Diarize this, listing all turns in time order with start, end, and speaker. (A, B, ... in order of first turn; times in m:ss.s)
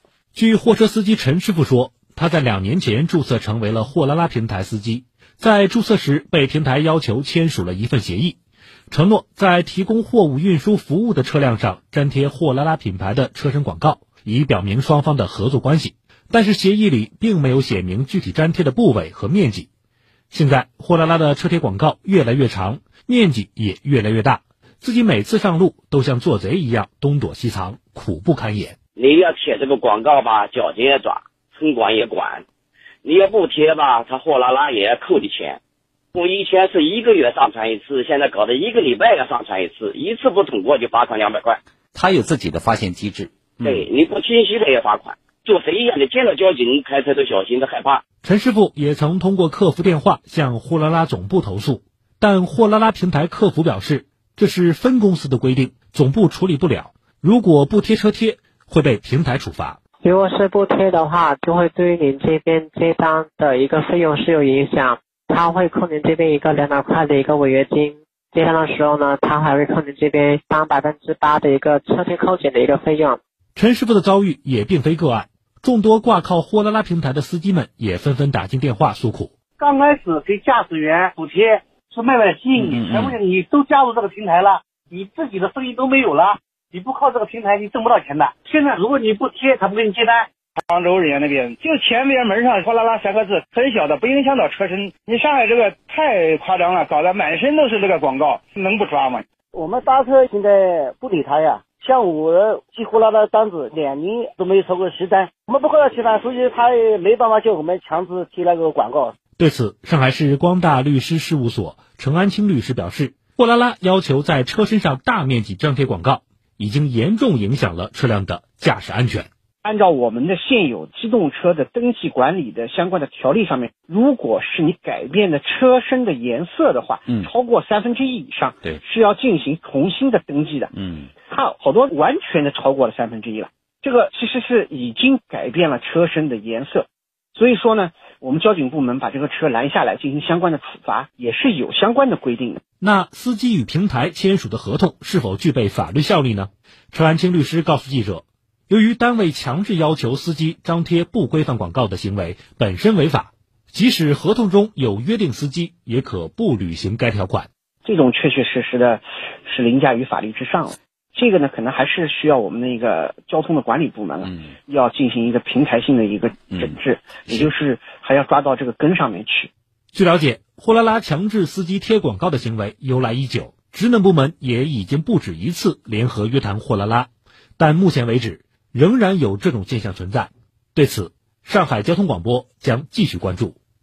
0:00.3-0:08.4 A
0:08.9-0:19.7 A
0:20.3-0:28.8 A
0:29.0-0:32.4 B
0:33.0-0:35.6 B
0:36.1-0:41.6 B
0:41.9-0:43.9 C
0:43.6-0:48.0 B
0:48.2-0:59.8 A
1:00.0-1:13.2 D
1:13.6-1:19.3 A
1:19.6-1:30.3 E
1:22.6-1:23.2 C
1:30.6-1:39.2 F
1:39.5-1:49.1 G
1:49.4-1:59.3 A
1:59.6-2:10.7 H
2:10.7-2:11.1 C
2:11.3-2:22.6 H
2:22.8-2:37.5 A
2:37.8-2:49.5 H
2:46.5-2:47.5 C
2:49.9-3:03.6 A